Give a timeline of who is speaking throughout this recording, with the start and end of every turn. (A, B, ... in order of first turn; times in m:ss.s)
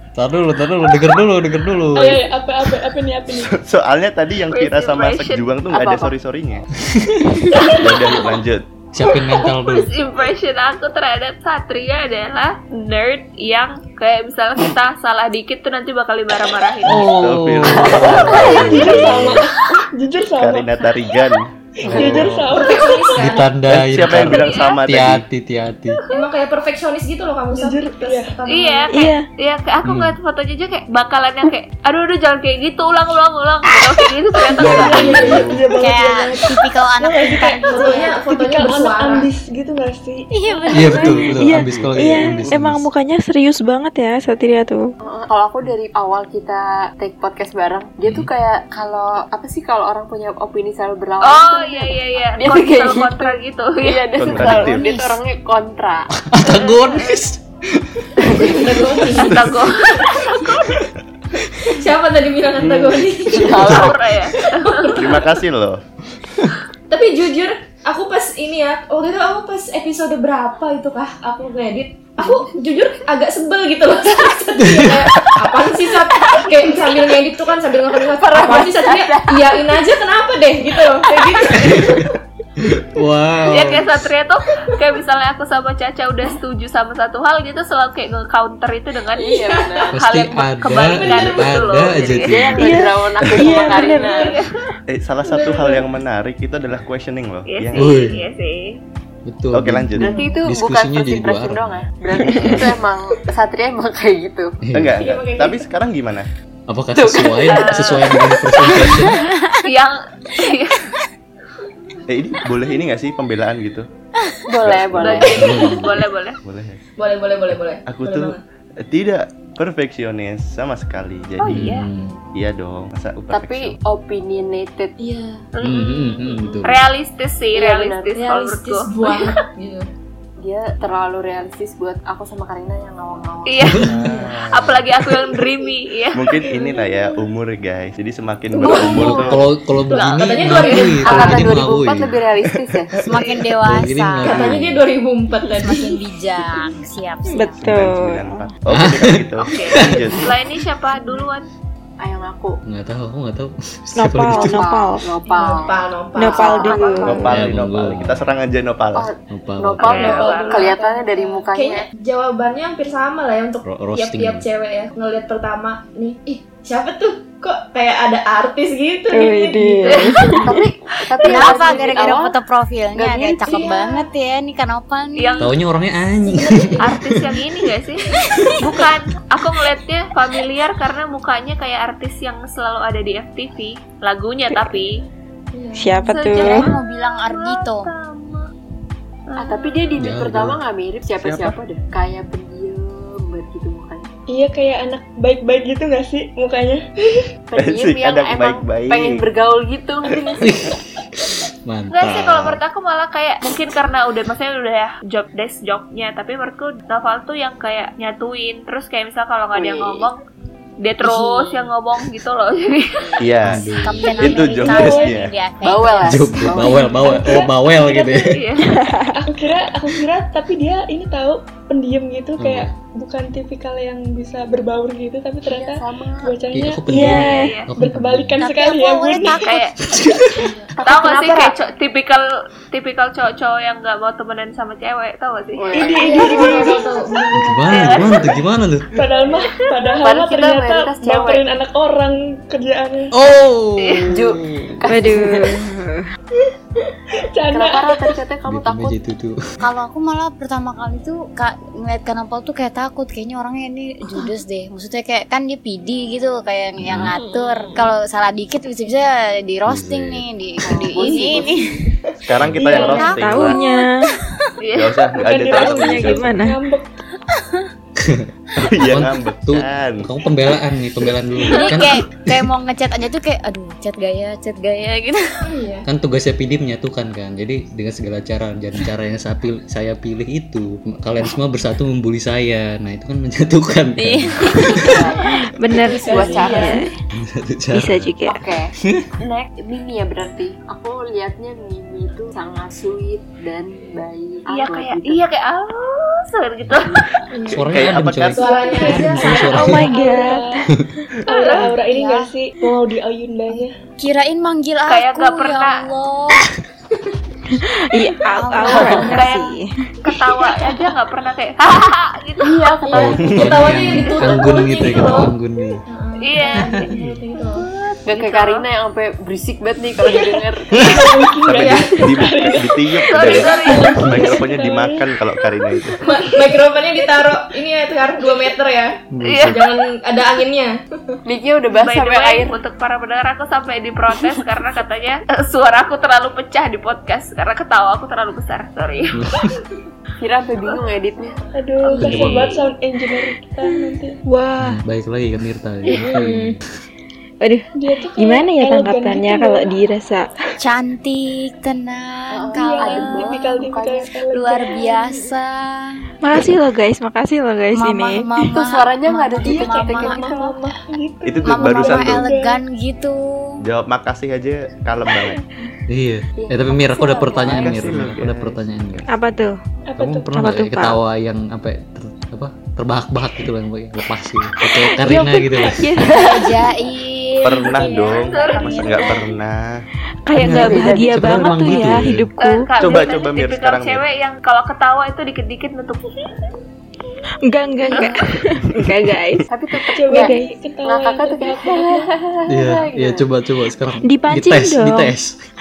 0:00.2-0:02.3 A
0:01.9-0:03.5 B
0:03.3-0:06.7 C
0:04.5-0:05.5 D
0:05.7-0:06.2 E
0:06.8-0:07.4 A
0:07.6-0:07.9 B
0:07.6-0:08.7 C
0:08.9-0:09.9 A
0:09.4-0:17.1 D
0:16.8-0:19.2 A
0:16.8-0:19.4 C
0:17.8-0:18.3 E
0:18.0-0:19.1 D
0:18.3-0:21.0 B
0:20.4-0:22.5 C
0:21.8-0:22.5 A
0:21.8-0:23.3 B
0:22.6-0:23.5 F
0:23.2-0:26.0 A
0:23.6-0:25.2 C
0:24.3-0:24.8 D
0:26.1-0:28.9 F
0:27.5-0:28.3 B
0:28.5-0:35.4 D
0:28.9-0:29.3 G
0:29.8-0:30.2 A
0:34.5-0:41.4 B
0:34.6-0:35.6 A
0:34.6-0:35.0 C
0:35.7-0:38.2 H
0:37.7-0:39.3 F
0:40.5-0:41.0 H
0:40.7-0:42.9 A
0:41.4-0:44.9 G
0:41.4-0:42.6 C
0:45.0-0:56.1 E
0:51.2-0:54.4 D
0:54.2-0:54.9 C
0:54.6-0:55.2 H
0:56.2-0:58.3 A
0:56.4-0:57.2 D
0:58.2-0:58.6 E
0:58.3-0:59.5 F
0:59.0-0:59.4 A
0:59.1-1:00.7 D
1:01.6-1:03.9 F
1:02.6-1:03.1 C
1:03.3-1:04.0 E
1:03.6-1:05.2 D
1:04.5-1:05.3 F
1:04.9-1:05.8 C
1:06.9-1:22.1 F
1:12.2-1:12.5 E
1:14.6-1:15.4 A
1:18.2-1:19.8 E
1:21.0-1:21.4 E
1:21.5-1:23.9 A
1:23.5-1:29.4 D
1:29.2-1:30.1 E
1:29.5-1:29.8 F
1:29.9-1:32.6 D
1:29.9-1:32.6 A
1:32.2-1:34.3 E
1:32.6-1:34.3 G
1:33.6-1:34.5 D
1:34.9-1:38.1 C
1:35.2-1:35.8 B
1:37.5-1:38.8 D
1:37.7-1:38.2 A
1:39.2-1:42.7 A
1:39.5-1:40.2 C
1:40.0-1:44.6 E
1:40.0-1:40.4 F
1:42.2-1:42.8 C
1:44.6-1:45.0 A
1:44.7-1:46.3 C
1:45.0-1:45.6 B
1:45.0-1:45.4 F
1:46.7-1:49.2 A
1:46.9-1:47.8 E
1:47.4-1:49.1 D
1:48.7-1:49.6 H
1:49.6-1:51.0 D
1:52.1-1:53.9 C
1:54.5-1:55.8 E
1:54.6-1:55.6 C
1:54.9-1:56.4 D
1:55.3-1:56.0 A
1:56.4-1:56.8 C
1:57.0-1:58.4 F
1:57.9-2:01.8 C
2:01.4-2:01.9 D
2:01.4-2:02.2 A
2:02.3-2:03.8 C
2:03.3-2:04.9 E
2:05.0-2:05.4 F
2:05.5-2:09.2 D
2:05.6-2:06.8 A
2:07.5-2:08.1 E
2:08.1-2:09.8 F
2:10.4-2:13.9 E
2:13.4-2:14.0 D
2:13.6-2:14.2 A
2:13.9-2:15.0 C
2:14.0-2:14.3 F
2:14.5-2:16.4 D
2:16.1-2:19.4 C
2:16.5-2:17.1 B
2:18.6-2:19.2 F
2:18.6-2:19.4 E
2:18.8-2:22.2 A
2:19.8-2:21.5 F
2:20.9-2:22.9 E
2:23.0-2:24.5 H
2:23.2-2:23.4 D
2:23.6-2:24.8 A
2:24.2-2:26.0 F
2:25.5-2:27.7 H
2:27.2-2:28.5 G
2:27.6-2:30.3 C
2:28.7-2:30.2 A
2:29.4-2:31.5 D
2:32.0-2:32.6 E
2:32.6-2:34.7 A
2:33.9-2:35.1 G
2:34.2-2:37.3 E
2:35.2-2:36.7 F
2:36.1-2:37.3 G
2:36.3-2:37.2 D
2:36.9-2:39.1 C
2:37.2-2:38.3 A
2:38.9-2:41.9 E
2:39.3-2:40.2 A
2:39.8-2:40.7 D
2:39.9-2:50.3 F
2:43.6-2:44.4 A
2:49.1-2:50.6 G
2:50.4-2:52.4 E
2:51.2-2:52.1 D
2:51.2-2:55.5 H
2:52.9-2:53.6 E
2:53.4-2:54.1 F
2:55.2-2:55.5 D
2:55.4-2:57.2 A
2:56.2-2:56.9 F
2:56.8-3:05.0 D
3:04.5-3:04.8 G
3:05.5-3:06.2 F
3:05.8-3:06.7 G
3:06.1-3:08.5 D
3:06.3-3:07.9 H
3:09.3-3:09.9 D
3:09.4-3:14.1 E
3:10.0-3:10.6 A
3:11.2-3:11.5 C
3:14.3-3:16.8 B
3:17.5-3:20.7 E
3:17.6-3:19.2 C
3:20.4-3:22.6 A
3:21.9-3:30.2 D
3:29.5-3:30.1 E
3:30.8-3:33.3 D
3:31.0-3:31.7 E
3:33.0-3:36.6 H
3:33.2-3:35.3 C
3:33.4-3:34.0 A
3:34.0-3:35.2 B
3:35.6-3:37.2 E
3:36.0-3:38.4 A
3:36.6-3:38.2 B
3:38.2-3:38.7 D
3:38.6-3:39.2 G
3:39.2-3:49.4 B
3:42.4-3:42.7 A
3:45.4-3:46.4 E
3:46.5-3:48.4 A
3:46.9-3:47.6 G
3:47.3-3:47.7 D
3:48.4-3:49.7 H
3:49.2-3:49.8 D
3:49.8-3:50.5 A
3:50.3-3:50.7 F
3:50.8-3:51.6 E
3:50.8-3:56.6 D
3:55.6-3:56.8 E
3:55.7-3:56.9 B
3:56.0-3:58.1 F
3:57.4-3:58.9 A
3:57.7-3:58.4 D
3:58.9-4:03.1 B
4:00.0-4:01.4 E
4:03.1-4:05.0 A
4:03.8-4:04.1 D
4:04.1-4:05.5 E
4:04.9-4:06.1 G
4:07.3-4:08.2 B
4:07.5-4:09.0 E
4:08.5-4:09.4 A
4:09.6-4:21.8 H
4:16.8-4:17.2 A
4:19.6-4:20.2 A
4:20.6-4:21.7 E
4:22.2-4:23.6 C
4:22.4-4:22.8 A
4:22.6-4:23.8 H
4:22.6-4:23.0 B
4:22.7-4:24.2 G
4:24.6-4:25.0 D
4:24.7-4:26.5 C
4:25.1-4:26.9 B
4:25.6-4:26.6 G
4:28.0-4:32.5 A
4:28.6-4:30.1 C
4:31.5-4:35.4 H
4:35.4-4:35.9 F
4:35.8-4:45.0 A
4:44.0-4:45.1 H
4:44.7-4:46.8 E
4:45.4-4:46.9 G
4:45.8-4:46.9 F
4:45.9-4:46.5 H
4:47.2-4:48.2 A
4:47.7-4:48.4 G
4:48.3-4:55.2 E
4:48.8-4:49.1 A
4:54.5-4:57.2 D
4:56.6-4:59.8 A
4:57.3-4:57.7 F
4:57.7-4:58.6 C
4:58.3-4:59.9 F
4:58.5-5:00.6 B
4:59.3-5:00.6 G
5:01.2-5:03.8 B
5:01.3-5:01.7 D
5:01.7-5:02.3 H
5:03.5-5:06.4 H
5:04.9-5:05.9 D
5:07.5-5:09.8 G
5:08.2-5:09.4 H
5:09.0-5:09.4 D
5:10.0-5:12.6 D
5:12.4-5:13.7 E
5:12.9-5:15.8 A
5:13.2-5:15.3 F
5:13.8-5:14.5 D
5:15.9-5:17.6 F
5:16.2-5:18.6 D
5:16.5-5:17.2 A
5:18.0-5:20.8 E
5:20.0-5:26.5 B
5:20.8-5:21.0 A
5:21.4-5:26.0 C
5:21.6-5:21.9 F
5:23.1-5:24.1 D
5:24.0-5:24.4 A
5:26.0-5:30.7 F
5:29.1-5:29.6 A
5:29.2-5:29.7 D
5:31.2-5:32.5 E
5:31.7-5:39.2 D
5:39.1-5:39.6 A
5:40.2-5:41.4 E
5:41.5-5:44.2 B
5:41.9-5:42.4 F
5:42.0-5:42.6 A
5:43.6-5:44.8 G
5:44.6-5:46.6 A
5:45.9-5:46.6 G
5:47.4-5:50.3 G
5:47.8-5:49.8 B
5:50.6-5:53.4 H
5:52.3-5:54.0 E
5:52.5-5:55.3 B
5:54.3-5:56.4 H
5:56.2-5:58.5 G
5:57.7-6:00.3 H
5:58.5-6:00.6 E
5:59.4-6:02.6 B
6:01.2-6:02.3 C
6:01.4-6:03.6 H
6:03.6-6:05.4 C
6:05.9-6:09.1 A
6:06.4-6:08.0 E
6:07.4-6:08.9 C
6:09.1-6:09.6 G
6:09.9-6:10.3 B
6:10.0-6:15.8 A
6:10.3-6:11.0 G
6:14.6-6:16.7 G
6:15.0-6:16.4 E
6:16.1-6:19.4 H
6:17.4-6:19.8 C
6:18.1-6:19.0 D
6:20.2-6:22.7 G
6:20.3-6:22.3 A
6:20.4-6:22.0 E
6:22.4-6:26.4 D
6:22.8-6:24.0 C
6:27.4-6:29.4 G
6:29.5-6:33.3 E
6:29.9-6:32.1 B
6:30.0-6:30.5 G
6:32.5-6:35.3 A
6:34.0-6:35.2 G